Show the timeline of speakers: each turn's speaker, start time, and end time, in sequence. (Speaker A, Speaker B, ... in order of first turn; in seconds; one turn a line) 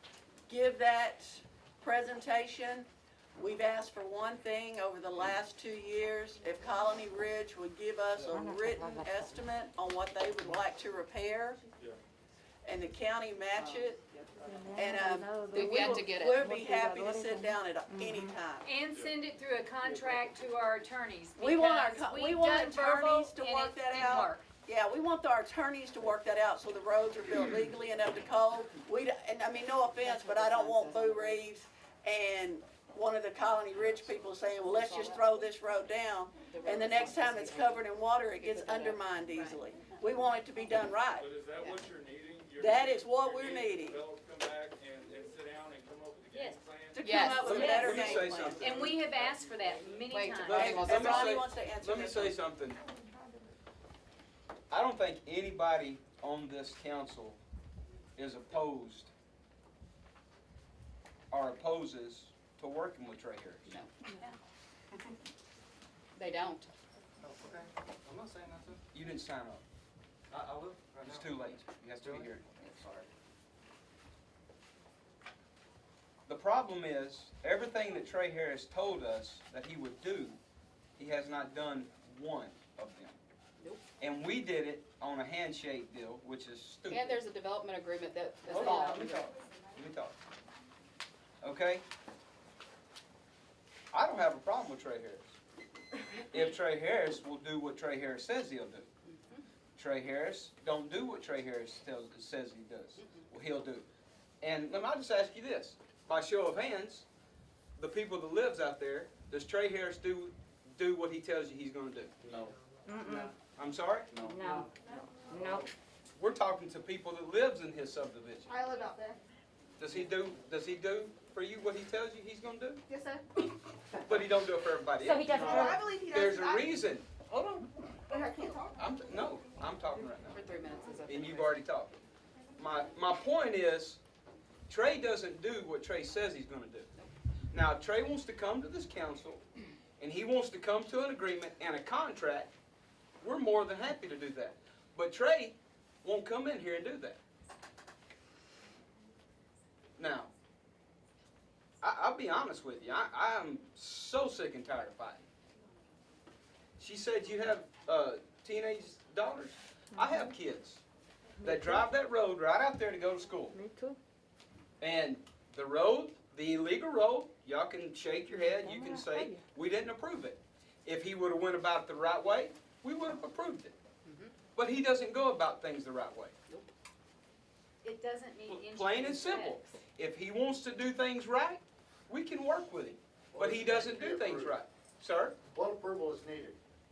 Speaker A: 0.5-11.6
Speaker B: 8.3-9.3
Speaker A: 12.6-14.0
Speaker C: 13.5-14.4
Speaker B: 14.4-18.3
Speaker A: 14.8-18.7
Speaker C: 15.5-16.4
Speaker D: 18.6-24.4
Speaker E: 19.9-20.2
Speaker A: 21.4-41.3
Speaker C: 30.0-31.4
Speaker E: 33.9-34.3
Speaker C: 34.6-35.4
Speaker C: 36.4-39.0
Speaker E: 41.1-50.0
Speaker C: 41.6-41.8
Speaker A: 42.6-44.0
Speaker D: 46.3-46.6
Speaker A: 46.9-48.6
Speaker C: 47.0-47.9
Speaker D: 47.4-48.0
Speaker F: 47.4-49.0
Speaker D: 48.6-51.2
Speaker C: 50.1-51.4
Speaker F: 50.3-52.8
Speaker A: 50.8-52.3
Speaker F: 54.7-57.4
Speaker F: 58.1-59.1
Speaker F: 61.3-63.8
Speaker C: 66.2-66.7
Speaker G: 67.4-68.8
Speaker F: 68.9-69.6
Speaker G: 70.3-71.3
Speaker F: 71.0-73.1
Speaker G: 72.0-72.3
Speaker F: 76.2-80.4
Speaker F: 81.0-83.2
Speaker C: 83.6-83.8
Speaker F: 84.0-87.2
Speaker C: 86.9-89.3
Speaker F: 88.5-90.2
Speaker F: 91.4-91.8
Speaker F: 93.9-95.3
Speaker F: 96.3-98.9
Speaker C: 99.1-99.4
Speaker F: 99.7-103.8
Speaker C: 103.0-103.3
Speaker F: 104.4-107.0
Speaker F: 107.8-112.1
Speaker H: 112.2-112.5
Speaker B: 112.9-113.3
Speaker F: 113.4-114.2
Speaker H: 114.1-114.5
Speaker B: 114.1-115.7
Speaker F: 116.2-118.5
Speaker I: 118.5-119.2
Speaker F: 119.8-122.8
Speaker I: 122.9-123.2
Speaker F: 124.0-127.7
Speaker B: 125.0-125.8
Speaker I: 125.3-126.6
Speaker I: 128.1-128.7
Speaker F: 128.7-130.4
Speaker C: 130.3-131.6
Speaker F: 131.0-132.0
Speaker F: 132.6-134.0
Speaker F: 134.7-136.9
Speaker F: 137.5-139.4
Speaker F: 140.0-142.5
Speaker F: 143.2-147.2
Speaker F: 150.0-150.3
Speaker F: 151.8-155.2
Speaker F: 156.8-160.8
Speaker B: 159.9-160.3
Speaker B: 161.4-161.8
Speaker F: 161.4-163.6
Speaker B: 163.5-164.0
Speaker F: 164.8-173.8
Speaker B: 168.3-169.4
Speaker C: 174.0-174.3
Speaker F: 174.5-176.3
Speaker D: 177.8-179.7
Speaker F: 178.5-185.4
Speaker H: 183.3-184.6
Speaker H: 185.5-186.6